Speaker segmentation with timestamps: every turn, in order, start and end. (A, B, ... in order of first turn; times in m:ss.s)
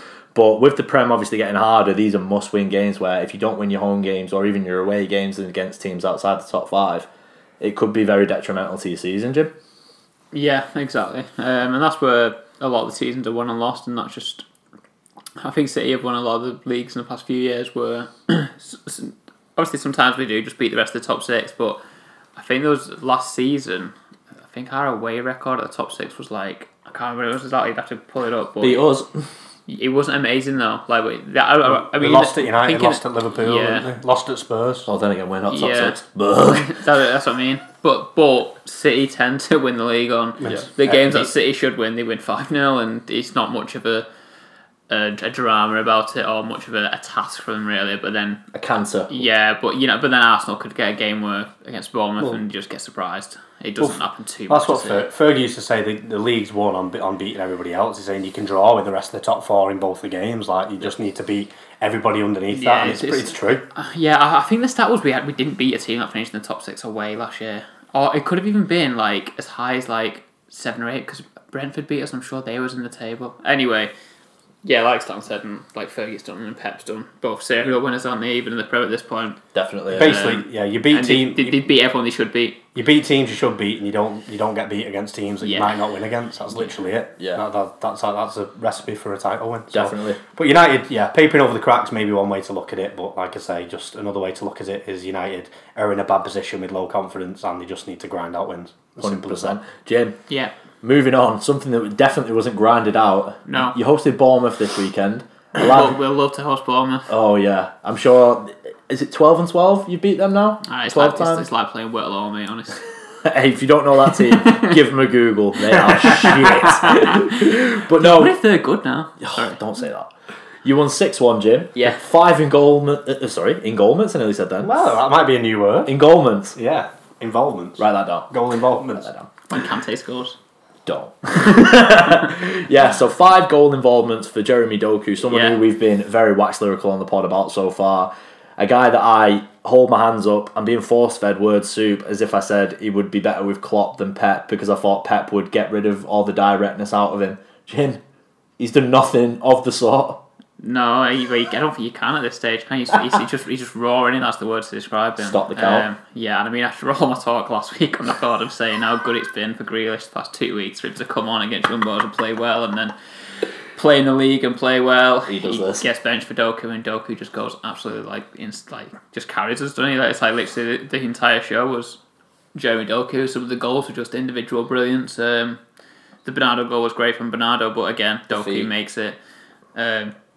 0:00.4-0:07.1 A
0:07.6-0:09.5 A
0:10.3-0:14.5 B
0:15.4-0:21.8 B
0:22.4-0:23.9 B
0:24.4-0:28.9 B
0:28.6-0:29.3 A
0:29.7-0:33.9 B
0:31.6-0:34.9 C
0:34.9-0:36.8 A
0:35.5-0:44.1 B
0:40.4-0:41.3 C
0:44.9-0:48.4 B
0:48.5-0:49.2 A
0:49.1-0:55.1 B
0:54.5-1:03.6 C
1:02.5-1:13.9 B
1:14.6-1:19.4 B
1:19.5-1:20.3 A
1:19.9-1:21.7 C
1:19.9-1:22.6 B
1:22.8-1:39.6 C
1:25.4-1:25.8 B
1:29.7-1:30.2 A
1:39.0-1:40.2 A
1:40.3-1:40.5 B
1:40.8-1:46.0 A
1:43.5-1:43.8 B
1:45.6-1:47.1 B
1:47.1-1:51.5 A
1:50.6-1:52.9 B
1:53.2-1:58.4 A
1:56.1-1:59.6 B
1:59.2-2:00.1 A
2:00.6-2:04.9 A
2:04.6-2:06.0 C
2:05.9-2:06.6 A
2:06.6-2:09.1 C
2:07.8-2:08.3 A
2:09.0-2:09.3 A
2:09.5-2:10.4 B
2:10.9-2:28.0 A
2:15.3-2:15.6 B
2:28.6-2:30.2 A
2:30.6-2:42.9 B
2:35.2-2:35.9 A
2:43.8-2:52.0 B
2:45.3-2:45.8 A
2:52.6-2:55.6 B
2:56.2-2:59.2 B
2:58.3-2:58.7 A
2:59.8-3:00.2 B